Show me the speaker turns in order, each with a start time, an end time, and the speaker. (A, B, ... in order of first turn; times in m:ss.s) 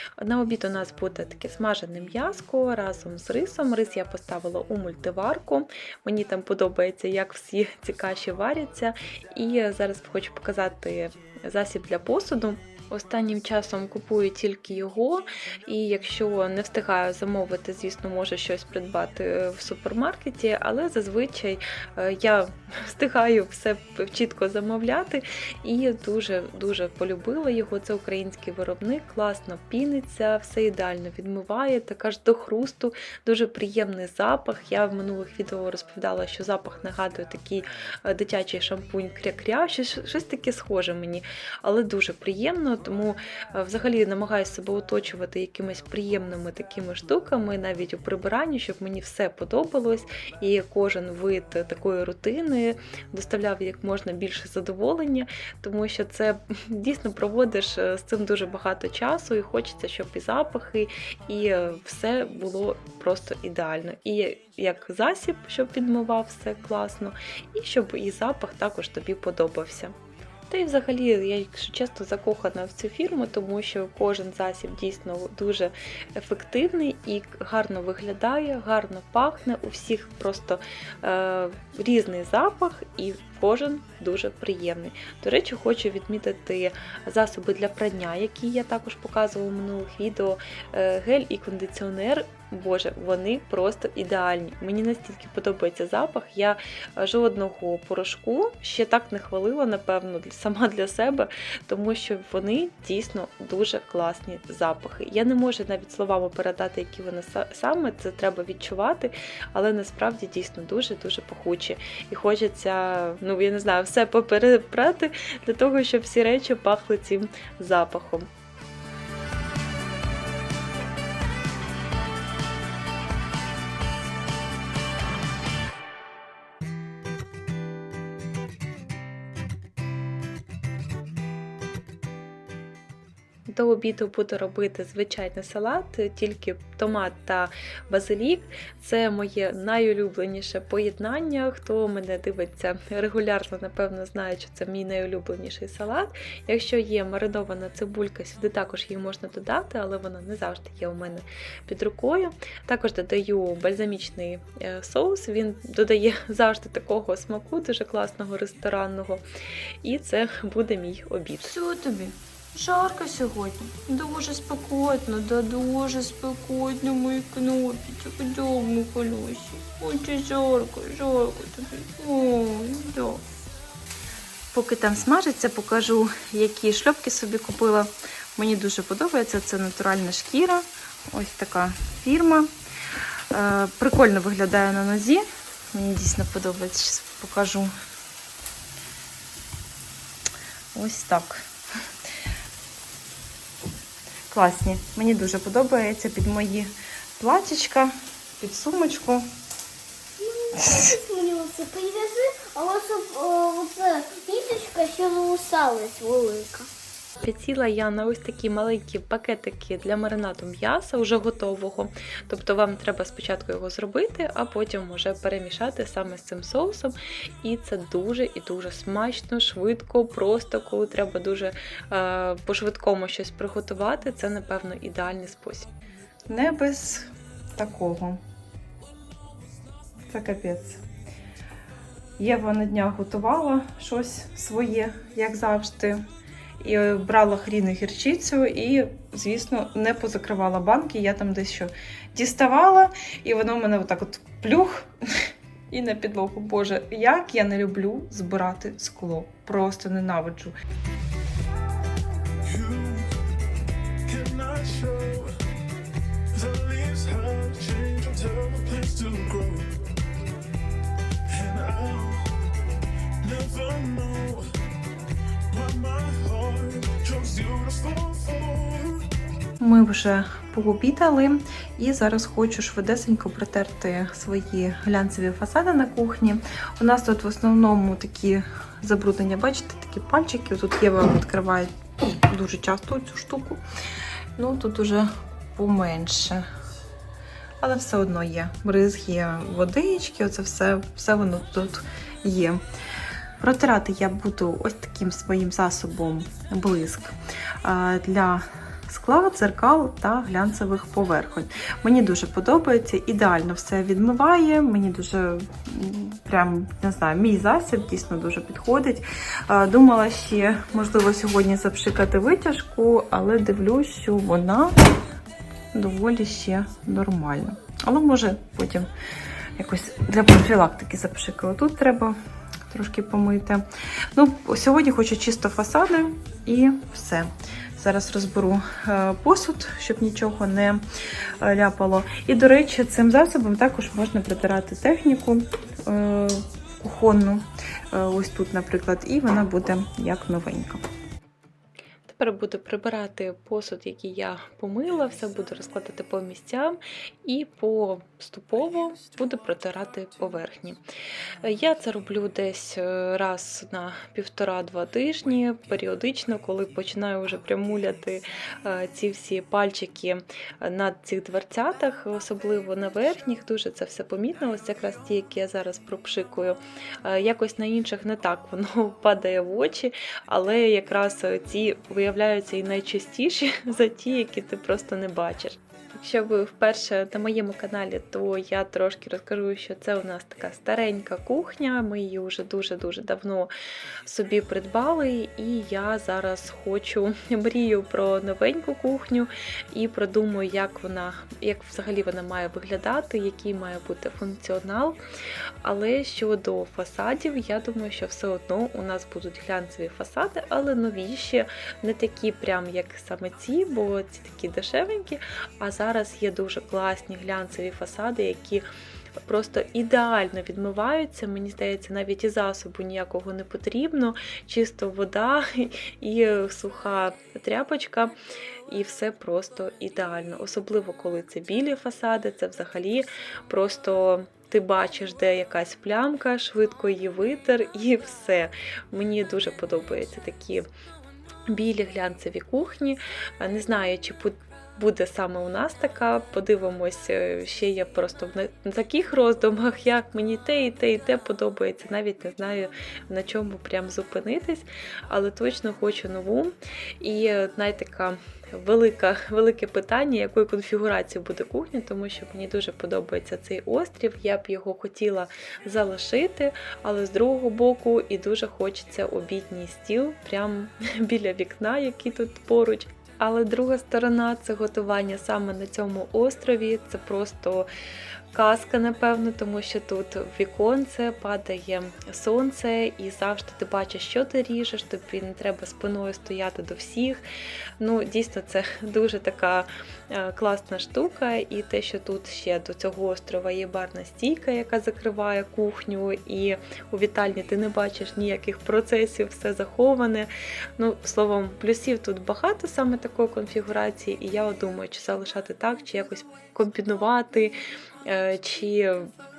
0:00.2-1:10.0 A
1:10.5-1:58.3 A
2:13.5-2:39.2 A
2:39.8-2:41.5 A
2:41.5-2:53.2 B
2:54.5-3:02.5 B
3:03.3-3:07.7 B
3:10.8-3:11.4 B
3:14.3-3:19.2 B
3:20.2-3:26.7 C
3:27.2-3:45.7 A
3:46.3-3:48.2 B
3:50.1-3:50.8 B
3:52.2-3:56.0 B
3:56.6-4:10.5 B
4:12.4-4:13.1 D
4:14.1-4:15.4 D
4:16.4-4:19.8 D
4:21.3-4:22.3 D
4:23.2-4:24.5 D
4:25.5-4:29.1 D
4:29.6-4:31.3 B
4:30.2-4:40.6 A
4:31.9-4:33.4 B
4:34.5-4:34.9 B
4:35.9-4:38.4 B
4:39.0-4:43.6 B
4:42.5-4:43.5 A
4:44.4-4:46.4 B
4:47.6-4:52.6 B
4:49.6-4:51.1 A
4:53.4-4:57.1 B
4:54.6-4:55.2 A
4:57.6-4:58.3 A
4:57.8-4:58.4 B
4:58.9-5:01.3 A
5:00.6-5:14.7 B
5:12.6-5:14.0 A
5:15.8-5:18.9 B
5:19.6-5:22.1 B
5:22.7-5:23.6 B
5:24.2-5:30.8 B
5:31.4-5:40.8 B
5:42.1-5:50.8 A
5:51.4-6:23.5 A
6:24.0-6:35.0 A
6:35.6-6:48.6 A
6:49.2-6:58.1 A
6:58.7-7:10.7 A
7:11.5-7:47.7 A
7:48.3-7:57.2 A
7:57.8-8:19.1 A